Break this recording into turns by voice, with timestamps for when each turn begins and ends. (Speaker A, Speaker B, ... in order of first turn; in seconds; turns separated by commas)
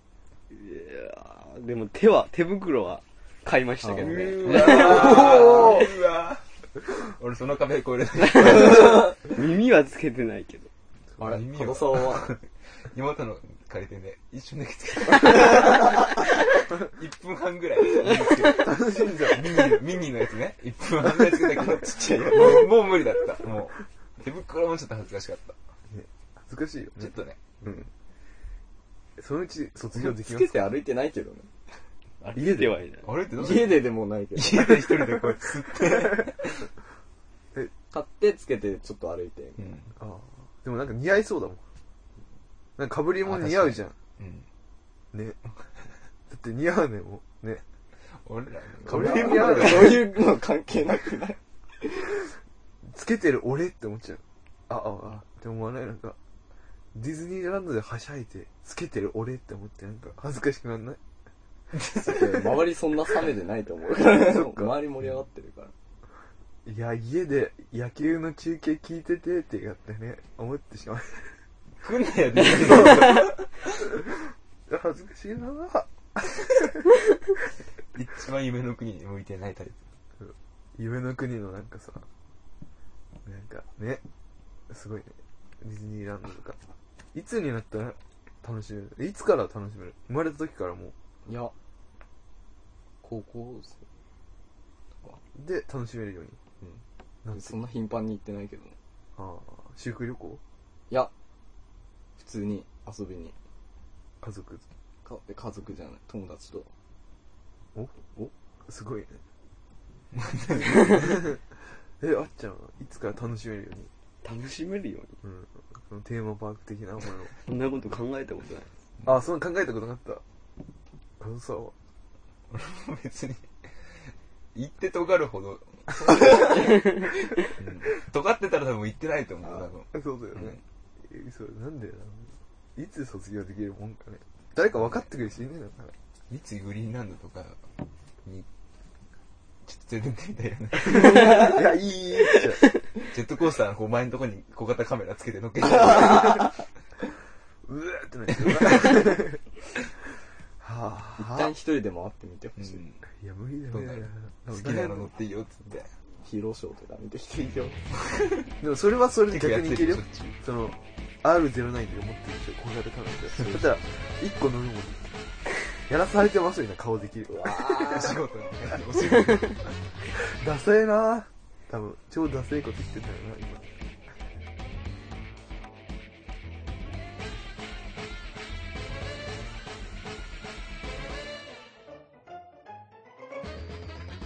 Speaker A: 0.5-5.7, Speaker B: 3.8-5.8, Speaker C: 4.0-9.2, Speaker A: 8.2-10.7, Speaker C: 11.2-25.6, Speaker B: 11.2-12.3, Speaker D: 18.6-19.8, Speaker B: 21.5-22.8, Speaker D: 25.9-27.9, Speaker C: 26.9-27.4, Speaker D: 29.2-30.6, Speaker B: 29.9-31.5, Speaker A: 32.2-33.2, Speaker D: 32.3-32.7, Speaker C: 33.0-36.7, Speaker B: 33.4-35.0, Speaker B: 37.9-39.8, Speaker C: 39.6-39.9, Speaker D: 40.0-41.6, Speaker D: 42.8-43.9, Speaker C: 43.2-44.5, Speaker D: 45.1-45.4, Speaker D: 46.3-47.6, Speaker C: 48.0-50.1, Speaker D: 48.8-50.0, Speaker B: 48.9-52.2, Speaker D: 52.8-56.2, Speaker D: 56.9-61.0, Speaker C: 61.7-62.2, Speaker B: 62.0-65.7, Speaker D: 64.0-64.8, Speaker D: 66.6-71.4, Speaker C: 71.8-73.9, Speaker D: 72.6-73.2, Speaker D: 73.9-77.0, Speaker C: 77.9-79.8, Speaker D: 80.2-82.0, Speaker D: 83.2-84.0, Speaker D: 84.7-86.6, Speaker D: 87.1-90.9, Speaker B: 91.2-91.5, Speaker B: 93.0-93.8, Speaker D: 95.3-96.4, Speaker B: 96.6-98.8, Speaker D: 97.2-97.5, Speaker D: 99.2-100.4, Speaker B: 102.2-103.3, Speaker D: 104.2-104.6, Speaker B: 105.0-106.7, Speaker D: 108.7-109.2, Speaker C: 110.1-111.2, Speaker D: 110.9-111.4, Speaker D: 112.0-113.9, Speaker A: 114.2-115.2, Speaker D: 115.2-117.3, Speaker A: 117.4-118.7, Speaker D: 119.0-120.2, Speaker D: 121.2-121.7, Speaker C: 122.5-130.6, Speaker A: 126.8-127.2, Speaker D: 129.9-135.9, Speaker C: 134.6-135.1, Speaker C: 136.3-137.6, Speaker C: 139.6-141.6, Speaker D: 140.9-142.6, Speaker B: 140.9-141.5, Speaker C: 143.1-146.5, Speaker B: 146.0-146.2, Speaker D: 147.6-149.5, Speaker C: 148.3-149.1, Speaker D: 150.6-151.6, Speaker B: 151.2-152.8, Speaker C: 152.6-153.0, Speaker D: 153.2-155.1, Speaker C: 153.7-155.9, Speaker B: 156.2-157.9, Speaker C: 158.1-158.5, Speaker D: 158.6-165.1, Speaker C: 159.2-160.4, Speaker D: 165.8-168.1, Speaker B: 167.3-168.2, Speaker C: 167.7-169.8, Speaker D: 170.0-173.7